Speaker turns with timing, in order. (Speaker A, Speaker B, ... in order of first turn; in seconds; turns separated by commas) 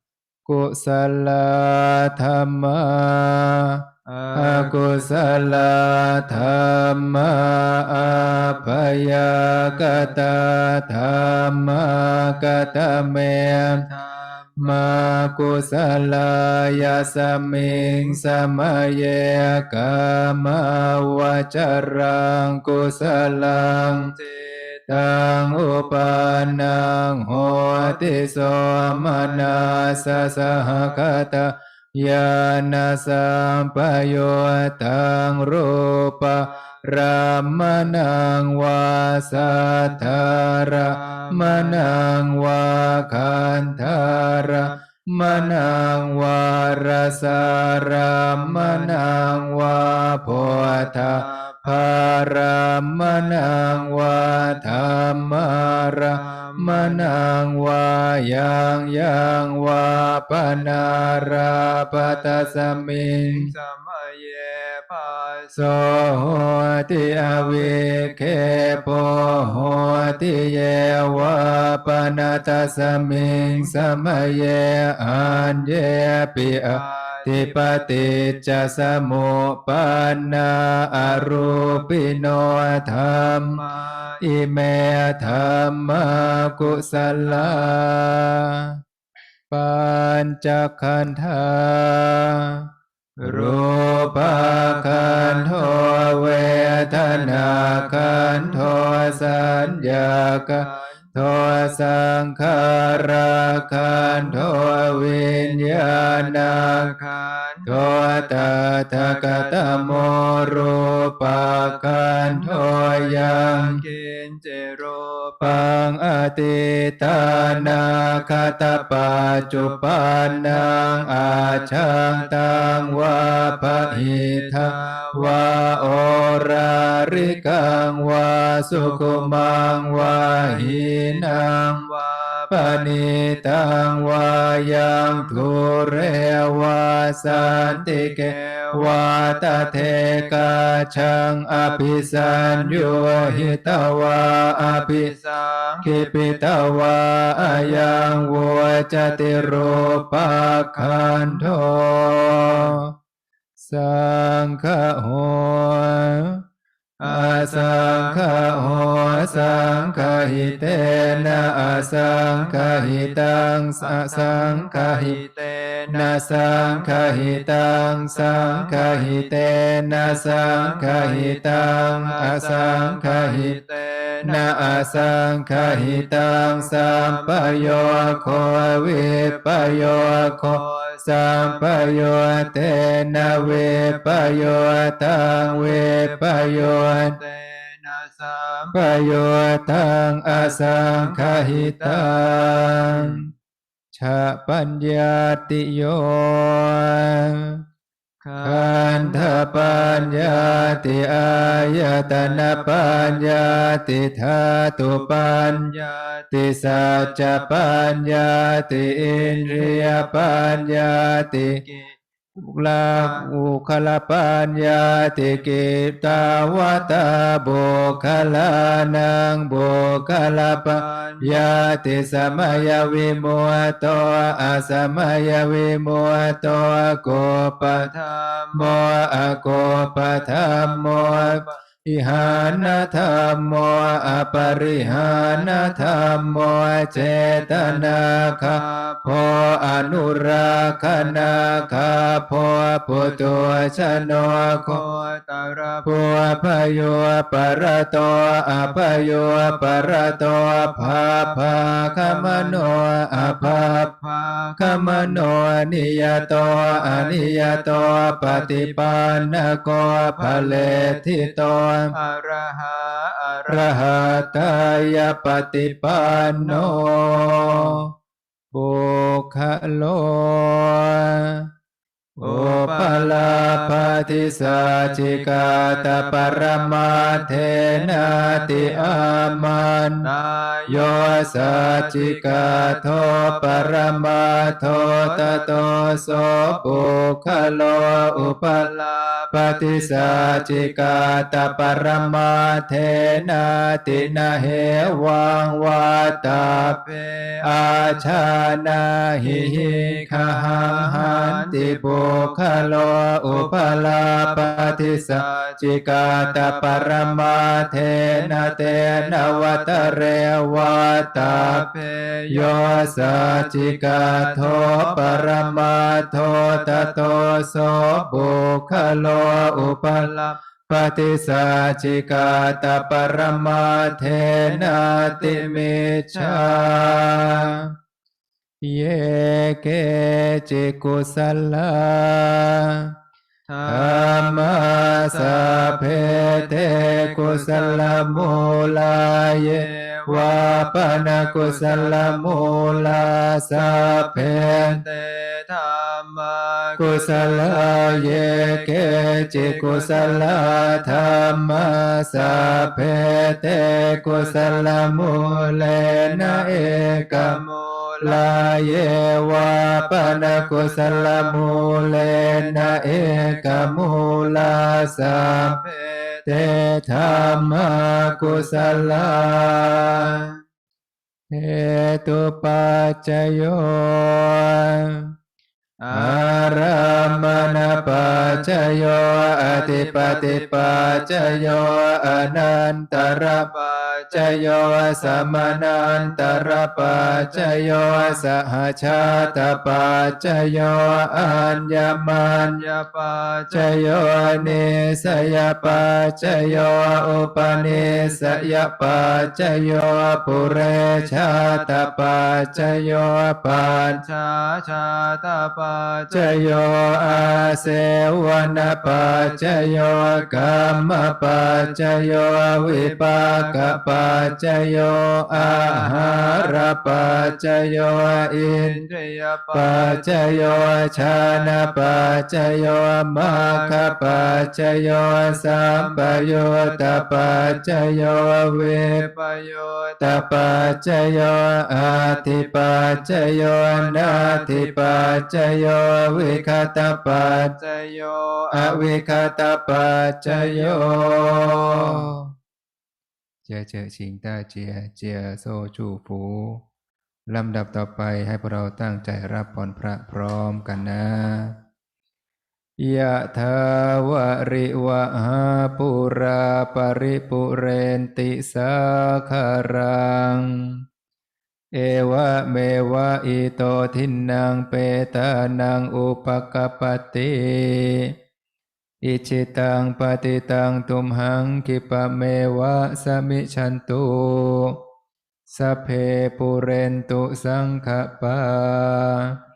Speaker A: 0.5-3.8, Speaker B: 4.1-5.3, Speaker A: 4.4-13.9, Speaker B: 6.1-6.5, Speaker B: 9.5-10.2, Speaker B: 12.4-12.8, Speaker B: 13.6-14.5, Speaker A: 14.6-24.1, Speaker B: 23.8-24.9, Speaker A: 24.9-63.5, Speaker B: 25.5-31.2, Speaker B: 36.4-36.8, Speaker B: 39.6-42.0, Speaker B: 44.2-45.7, Speaker B: 47.2-49.4, Speaker B: 50.2-51.8, Speaker B: 53.0-54.9, Speaker B: 56.1-57.2, Speaker B: 60.5-65.5, Speaker A: 65.5-83.6, Speaker B: 67.0-73.8, Speaker B: 76.4-78.8, Speaker B: 81.0-84.3, Speaker A: 84.2-88.8, Speaker B: 86.2-87.8, Speaker A: 89.5-92.7, Speaker B: 93.2-101.8, Speaker A: 93.2-106.9, Speaker B: 103.9-110.7, Speaker A: 107.7-113.8, Speaker B: 111.4-115.7, Speaker A: 115.4-131.8, Speaker B: 117.2-127.5, Speaker B: 128.7-135.5, Speaker A: 132.5-145.1, Speaker B: 137.3-140.8, Speaker B: 141.5-151.5, Speaker A: 145.8-152.9, Speaker B: 152.3-152.8, Speaker A: 153.6-156.4, Speaker B: 157.0-169.3, Speaker A: 157.0-165.2, Speaker A: 165.9-173.6, Speaker B: 169.9-188.8, Speaker A: 174.2-187.2, Speaker A: 188.7-193.2, Speaker B: 190.3-193.2, Speaker A: 193.9-197.6, Speaker B: 198.2-203.9, Speaker A: 198.4-205.7, Speaker B: 204.9-206.3, Speaker A: 206.3-211.6, Speaker B: 206.8-208.3, Speaker B: 208.9-212.0, Speaker A: 212.4-227.9, Speaker B: 212.9-213.2, Speaker B: 216.3-216.9, Speaker B: 220.5-221.5, Speaker B: 222.1-223.4, Speaker B: 227.7-228.8, Speaker A: 228.5-244.8, Speaker B: 230.1-231.6, Speaker B: 234.4-242.2, Speaker B: 242.9-246.2, Speaker A: 245.8-253.9, Speaker B: 248.6-255.2, Speaker A: 254.6-261.9, Speaker B: 256.2-261.4, Speaker B: 261.9-267.9, Speaker A: 263.5-267.9, Speaker A: 268.5-271.5, Speaker A: 272.2-280.1, Speaker B: 272.2-279.5, Speaker B: 280.0-286.9, Speaker A: 280.7-288.7, Speaker B: 287.9-292.1, Speaker A: 289.3-296.8, Speaker B: 293.0-293.3, Speaker B: 293.9-295.0, Speaker B: 295.9-298.4, Speaker A: 297.4-311.6, Speaker B: 299.2-310.2, Speaker B: 310.8-318.4, Speaker A: 312.3-320.1, Speaker B: 319.1-320.4, Speaker A: 320.7-327.7, Speaker B: 322.2-327.6, Speaker A: 328.6-332.9, Speaker B: 333.5-343.0, Speaker A: 333.7-344.8, Speaker B: 343.5-358.7, Speaker A: 346.8-357.4, Speaker A: 358.0-365.6, Speaker B: 359.4-370.4, Speaker A: 366.3-370.2, Speaker A: 371.3-375.1, Speaker B: 375.8-382.4, Speaker A: 375.9-383.5, Speaker B: 382.9-388.2, Speaker A: 384.1-392.6, Speaker B: 388.9-390.3, Speaker B: 390.9-399.6, Speaker A: 393.5-404.0, Speaker B: 400.1-402.8, Speaker B: 403.9-406.4, Speaker A: 406.1-418.8, Speaker B: 407.1-407.5, Speaker B: 408.4-414.4, Speaker B: 415.3-422.2, Speaker A: 419.5-429.1, Speaker B: 423.2-424.5, Speaker B: 425.4-427.7, Speaker B: 428.8-430.7, Speaker A: 430.0-437.6, Speaker B: 431.9-435.3, Speaker B: 436.0-439.3, Speaker A: 438.5-442.3, Speaker B: 440.3-442.1, Speaker A: 443.5-446.6, Speaker A: 447.3-451.6, Speaker A: 452.8-460.8, Speaker A: 461.8-468.1, Speaker A: 469.1-474.8, Speaker A: 475.5-479.4